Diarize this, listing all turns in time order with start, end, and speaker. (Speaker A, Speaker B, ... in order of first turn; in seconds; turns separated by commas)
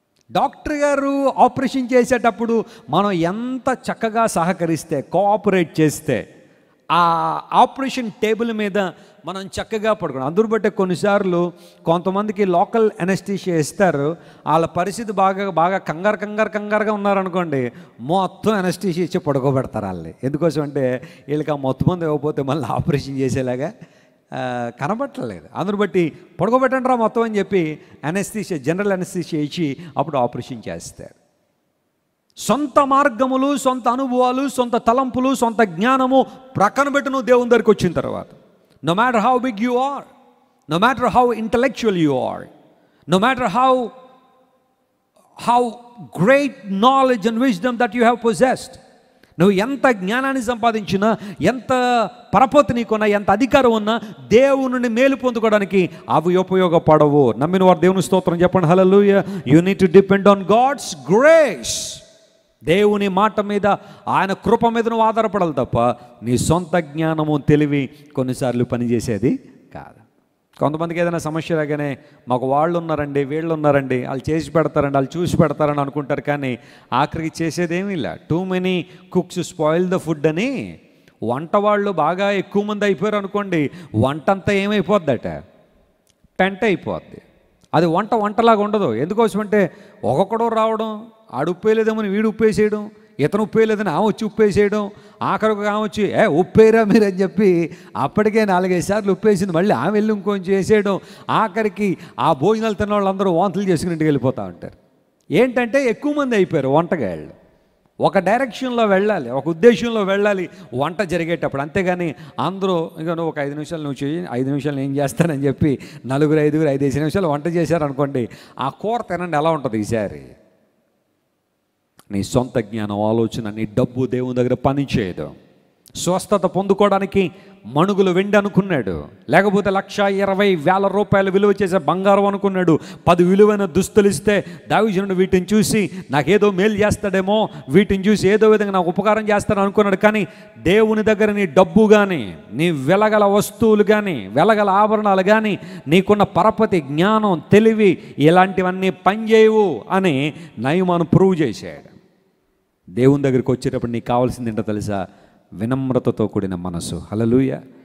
Speaker A: 0.3-6.2, Speaker A: 6.9-23.7, Speaker A: 24.3-31.1, Speaker A: 32.5-40.1, Speaker A: 40.7-42.5, Speaker A: 43.1-43.9, Speaker A: 45.4-48.8, Speaker A: 49.4-51.8, Speaker A: 52.3-62.0, Speaker A: 62.7-70.0, Speaker A: 70.6-80.5, Speaker A: 81.3-85.3, Speaker A: 86.4-87.2, Speaker A: 87.7-104.7, Speaker A: 105.4-107.3, Speaker A: 108.0-120.3, Speaker A: 122.1-125.3, Speaker A: 126.0-151.9, Speaker A: 153.0-155.0, Speaker A: 155.6-157.6